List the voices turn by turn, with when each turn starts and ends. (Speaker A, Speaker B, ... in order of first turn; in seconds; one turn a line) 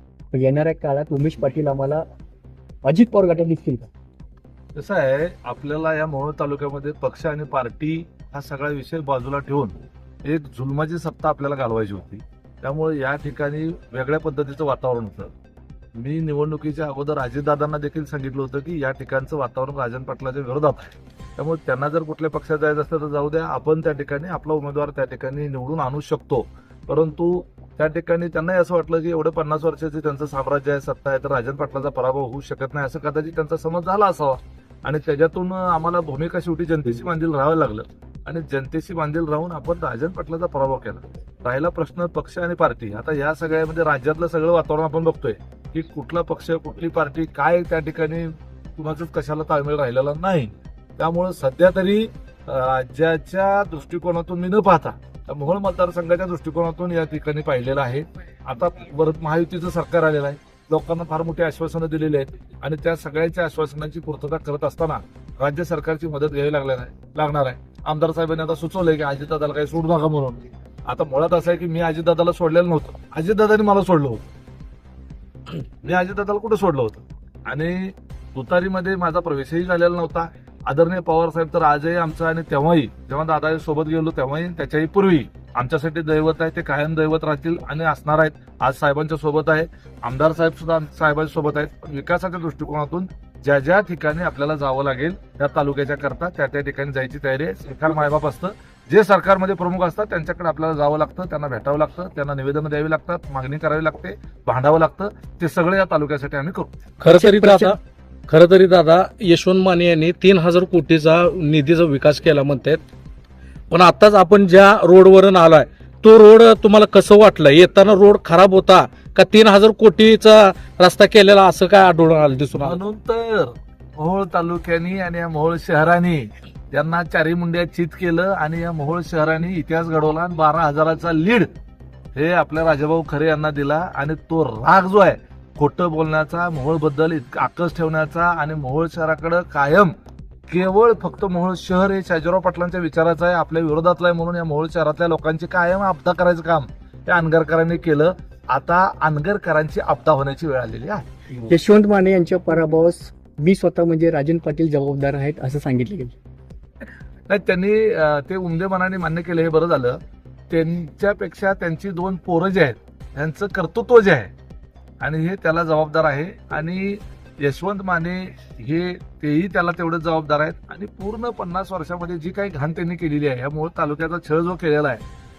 Speaker A: 0.3-2.0
Speaker A: 2.8-3.9
Speaker B: 4.7-15.3
Speaker B: 15.9-74.2
Speaker B: 75.8-106.7
Speaker C: 107.0-112.8
Speaker A: 107.1-107.8
Speaker C: 113.7-122.8
Speaker B: 122.5-131.5
Speaker B: 132.1-139.9
Speaker B: 140.5-151.1
Speaker A: 151.5-156.2
Speaker B: 157.3-160.0
Speaker B: 160.5-164.3
Speaker B: 165.0-175.0